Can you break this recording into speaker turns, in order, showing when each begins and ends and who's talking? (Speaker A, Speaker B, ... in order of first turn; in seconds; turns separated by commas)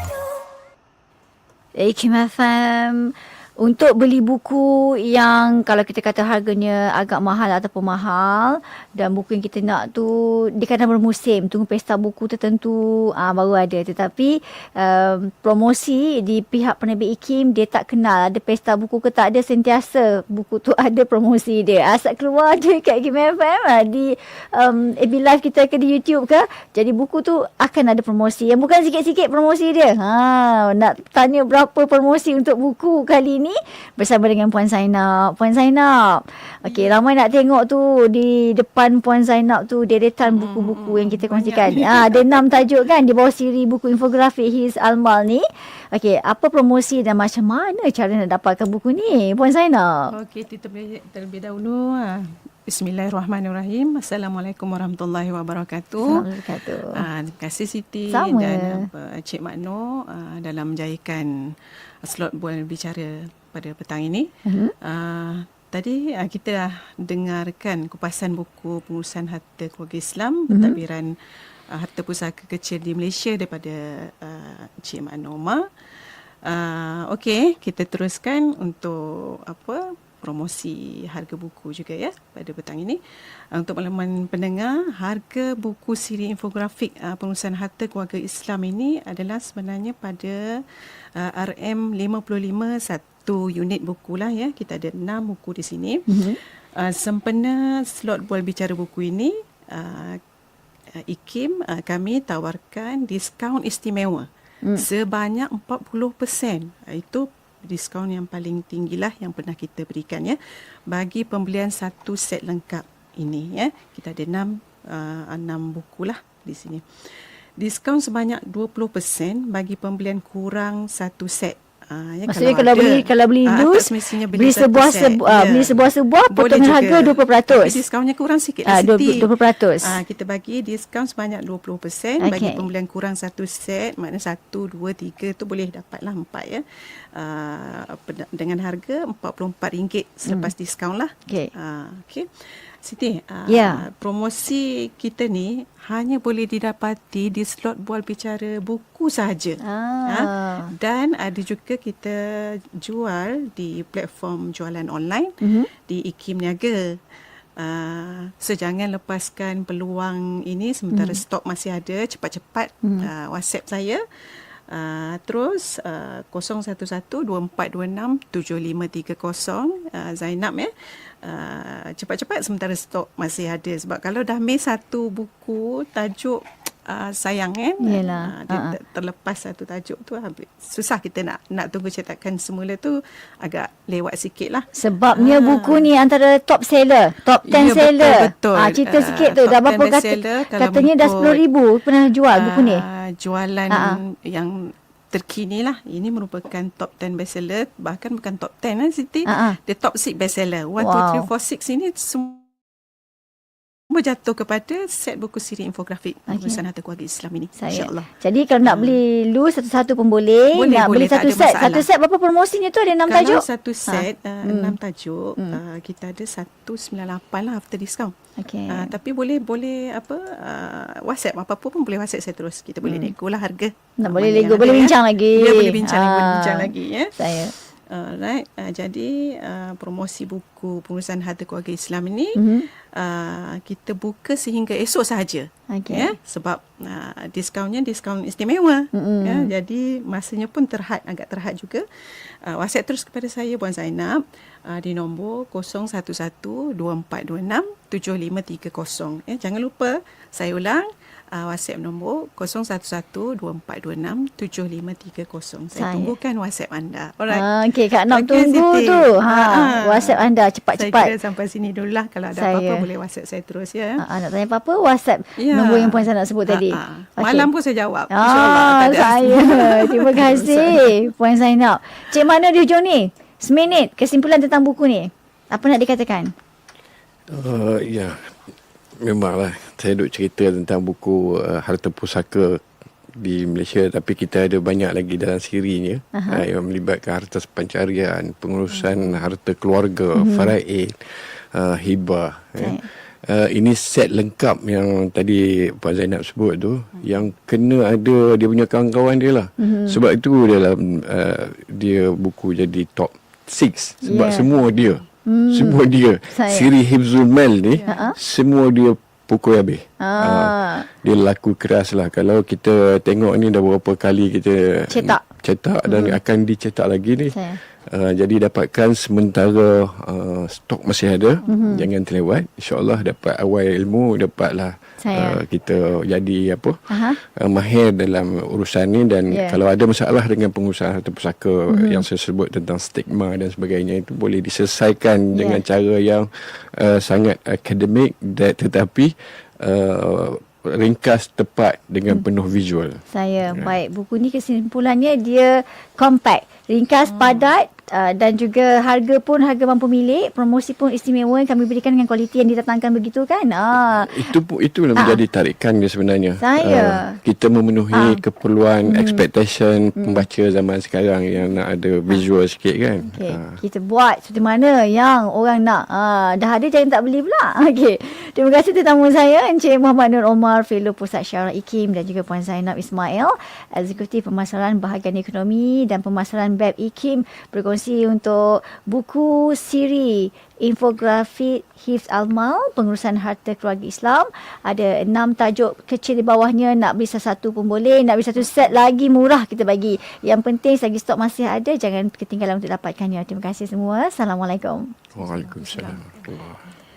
Speaker A: 1.8-50.1, Speaker B: 40.2-42.5, Speaker B: 50.1-56.2, Speaker A: 56.0-57.0, Speaker B: 57.0-64.3, Speaker A: 58.1-58.9, Speaker A: 64.5-64.7, Speaker B: 64.8-71.1, Speaker A: 70.5-70.8, Speaker B: 71.7-75.6, Speaker B: 76.5-83.0, Speaker B: 83.5-90.6, Speaker B: 91.2-100.2, Speaker A: 96.1-96.4, Speaker B: 101.0-129.3, Speaker A: 122.3-127.8, Speaker A: 128.7-130.0, Speaker B: 129.9-136.6, Speaker A: 132.2-132.6, Speaker B: 137.1-142.3, Speaker A: 140.3-140.5, Speaker B: 142.8-157.0, Speaker A: 143.5-143.8, Speaker A: 149.6-150.7, Speaker A: 155.4-155.7, Speaker B: 157.6-164.0, Speaker A: 160.9-161.2, Speaker A: 162.8-163.1, Speaker B: 164.7-170.7, Speaker B: 171.2-185.9, Speaker A: 177.8-178.8, Speaker A: 184.8-192.8, Speaker B: 187.5-191.4, Speaker B: 192.3-202.5, Speaker A: 193.7-194.0, Speaker A: 199.3-199.6, Speaker A: 200.8-201.3, Speaker B: 203.9-208.1, Speaker A: 206.3-206.6, Speaker A: 207.6-214.8, Speaker B: 208.6-209.0, Speaker B: 210.5-211.9, Speaker B: 213.1-218.1, Speaker A: 218.4-218.9, Speaker B: 218.7-232.4, Speaker A: 222.8-223.1, Speaker A: 224.0-227.5, Speaker A: 232.4-232.7, Speaker B: 233.0-241.8, Speaker A: 235.7-236.1, Speaker A: 238.9-239.5, Speaker B: 242.4-257.5, Speaker A: 255.8-256.1, Speaker A: 257.3-261.1, Speaker B: 258.1-264.0, Speaker A: 262.4-262.8, Speaker A: 264.0-267.5, Speaker B: 265.4-270.9, Speaker A: 268.1-276.3, Speaker C: 277.3-278.3, Speaker C: 279.0-282.6, Speaker C: 283.2-343.7, Speaker A: 286.1-286.5, Speaker B: 288.8-289.1, Speaker A: 290.2-290.5, Speaker A: 292.6-292.9, Speaker A: 299.6-300.0, Speaker A: 304.0-304.5, Speaker A: 305.3-306.7, Speaker B: 307.7-308.0, Speaker A: 307.9-308.2, Speaker A: 310.0-310.9, Speaker A: 314.9-315.2, Speaker A: 315.9-316.2, Speaker A: 317.3-317.6, Speaker A: 321.5-321.9, Speaker A: 325.0-325.4, Speaker A: 326.9-327.2, Speaker A: 329.3-329.6, Speaker A: 331.7-332.0, Speaker A: 335.3-335.6, Speaker A: 343.1-354.3, Speaker B: 347.1-347.5, Speaker C: 354.0-363.6, Speaker A: 356.4-357.2, Speaker A: 357.9-358.2, Speaker A: 358.9-359.2, Speaker A: 360.0-360.2, Speaker A: 363.1-394.9, Speaker C: 395.1-396.6, Speaker B: 395.2-396.2